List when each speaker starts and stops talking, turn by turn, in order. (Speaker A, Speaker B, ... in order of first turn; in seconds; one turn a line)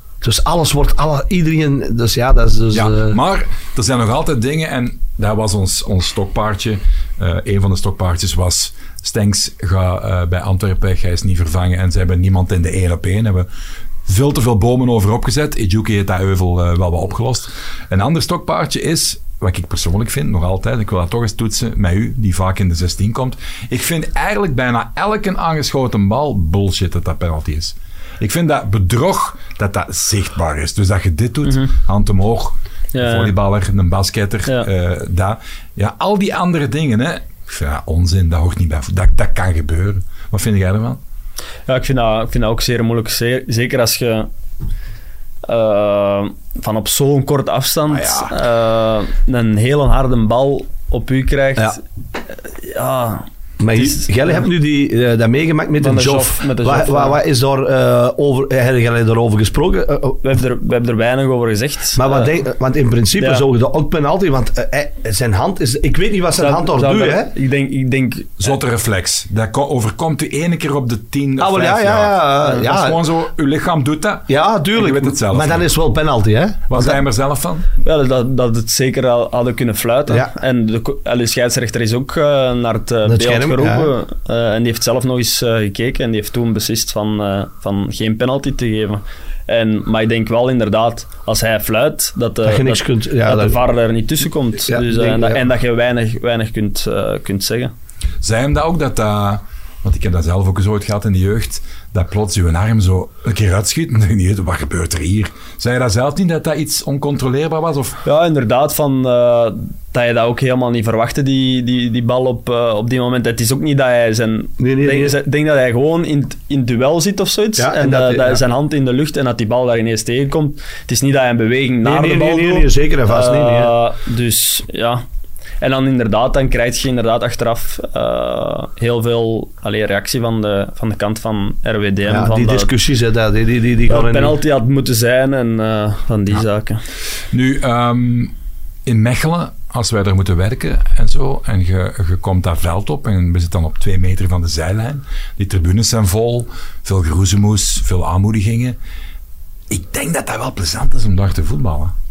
Speaker A: 0.2-3.2
Speaker B: 2.7-13.5
Speaker B: 14.1-41.0
Speaker C: 31.4-31.7
Speaker C: 32.9-33.3
Speaker C: 41.7-44.3
Speaker C: 45.5-51.8
Speaker B: 47.9-48.4
Speaker C: 52.5-54.4
Speaker A: 53.6-60.2
Speaker C: 55.8-57.2
Speaker C: 60.2-62.3
Speaker A: 62.0-67.3
Speaker C: 63.2-63.5
Speaker C: 66.4-68.5
Speaker B: 68.4-75.7
Speaker A: 71.4-73.0
Speaker A: 74.3-77.0
Speaker B: 76.7-77.7
Speaker C: 77.8-97.7
Speaker A: 83.0-83.9
Speaker A: 92.4-93.6
Speaker A: 94.7-95.4
Speaker B: 98.2-108.0
Speaker C: 108.0-125.0
Speaker A: 114.6-115.2
Speaker A: 117.6-118.4
Speaker A: 121.8-123.7
Speaker C: 125.6-132.7
Speaker A: 132.1-134.4
Speaker C: 133.9-136.8
Speaker B: 137.3-138.3
Speaker B: 138.9-148.8
Speaker B: 149.7-151.9